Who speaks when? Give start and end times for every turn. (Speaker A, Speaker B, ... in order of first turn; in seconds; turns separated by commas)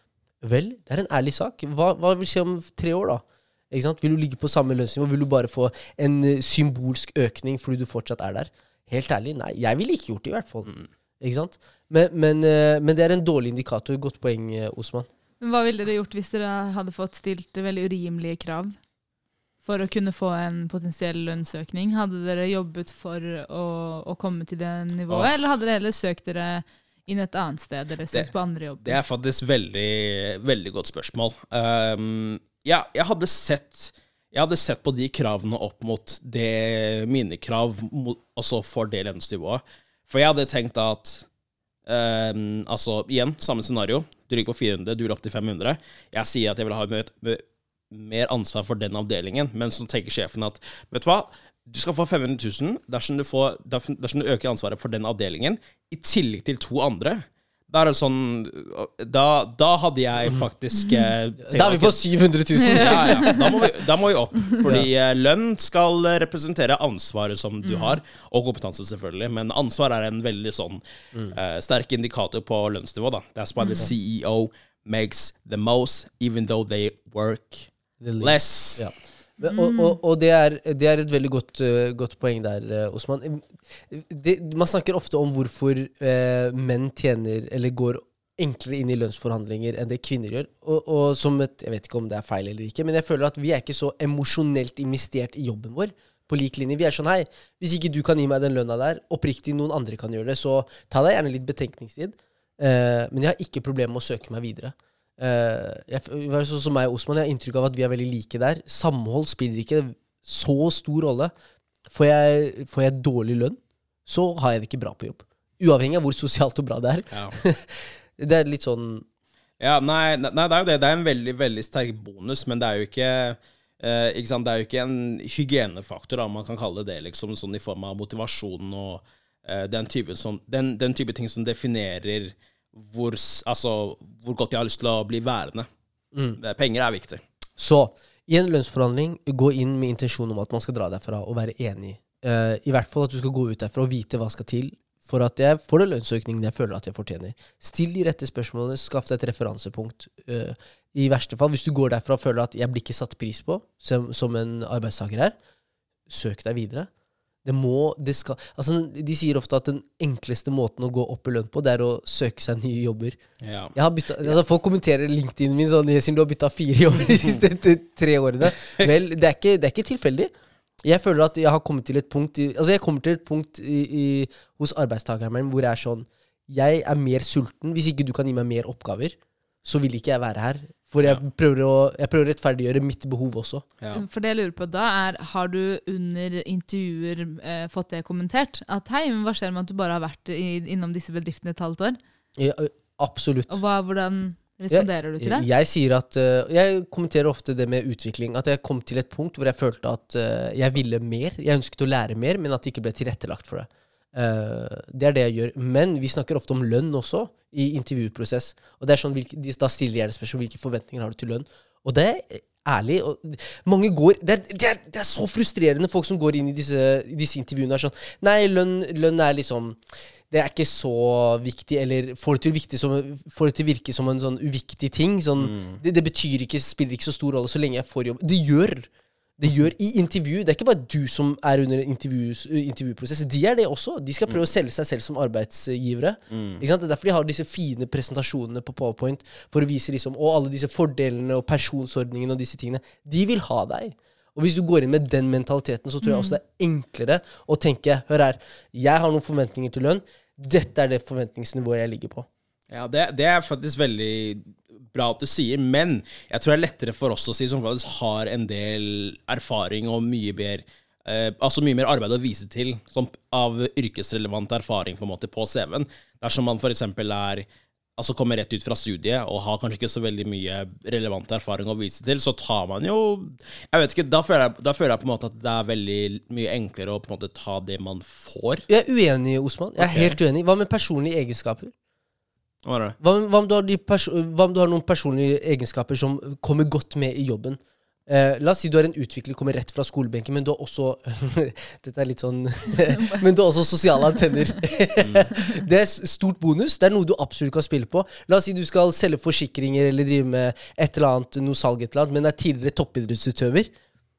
Speaker A: 0.4-15.1, Speaker B: 15.4-18.8, Speaker B: 19.6-29.0, Speaker C: 28.1-41.2, Speaker C: 41.9-62.0, Speaker B: 60.8-61.1, Speaker A: 61.4-63.4, Speaker B: 62.5-63.7, Speaker C: 62.7-78.8, Speaker A: 64.6-64.9, Speaker B: 67.6-68.0, Speaker B: 73.6-73.9, Speaker A: 78.0-111.3, Speaker B: 79.4-80.0, Speaker A: 111.9-119.0, Speaker C: 117.1-117.4, Speaker C: 119.6-135.7, Speaker C: 136.4-137.2, Speaker A: 137.6-155.3, Speaker A: 156.1-156.9, Speaker A: 157.4-163.2, Speaker C: 163.4-163.7, Speaker A: 163.7-170.3, Speaker A: 170.8-183.7, Speaker B: 183.9-192.0, Speaker A: 192.3-193.6, Speaker B: 193.5-195.4, Speaker A: 194.7-219.8, Speaker A: 220.3-252.3, Speaker C: 225.4-225.8, Speaker C: 236.3-236.6, Speaker B: 246.0-246.4, Speaker C: 252.7-267.4, Speaker C: 268.0-278.6, Speaker A: 278.7-281.7, Speaker C: 279.8-280.2, Speaker C: 282.6-282.9, Speaker A: 283.0-303.7, Speaker B: 292.8-293.2, Speaker B: 294.3-294.6, Speaker C: 295.0-295.3